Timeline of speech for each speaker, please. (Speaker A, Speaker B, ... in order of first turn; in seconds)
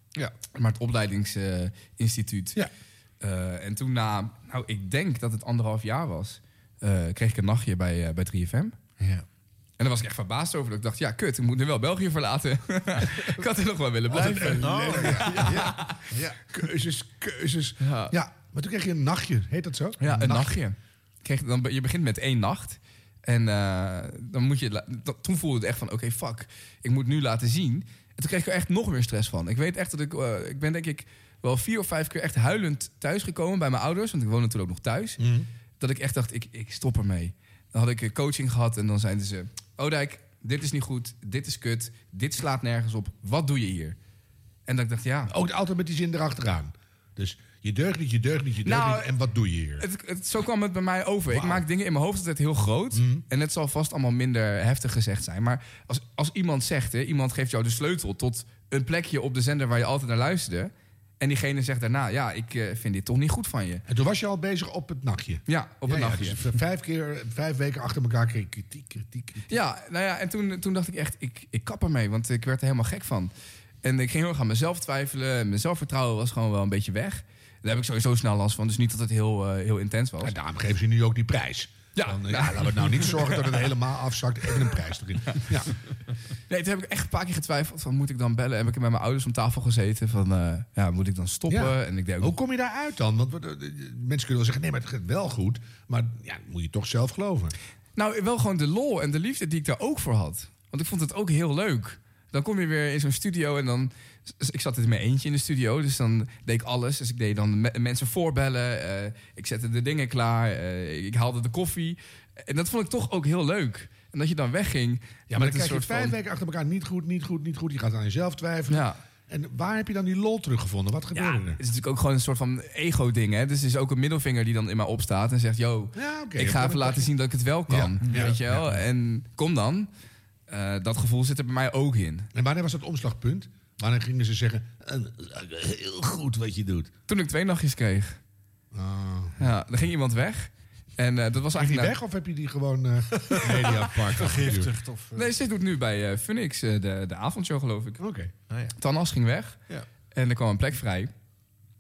Speaker A: 0.5-2.6, 3.2-8.8, 9.8-16.0, 17.8-18.1, 20.0-35.2, 35.8-44.0, 44.7-45.3, 48.6-49.1, 49.8-63.8, 65.5-66.5, 69.5-73.3, 73.8-80.3, 81.9-83.7, 86.5-92.3, 98.0-116.2, 118.7-119.0, 121.1-129.9, 130.5-132.3, 137.1-138.2, 139.4-142.0, 145.1-148.0, 148.8-149.6, 150.1-151.1
Speaker B: 14.1-15.7, 16.5-20.6, 35.2-35.5, 45.3-49.9, 51.3-51.6, 52.9-53.2, 63.9-69.5, 80.2-85.7, 91.5-97.5, 115.3-121.6, 125.9-127.1, 127.7-128.8, 132.3-136.9, 138.7-139.5, 141.5-144.7, 148.0-148.3
Speaker C: 14.1-16.4, 143.3-145.3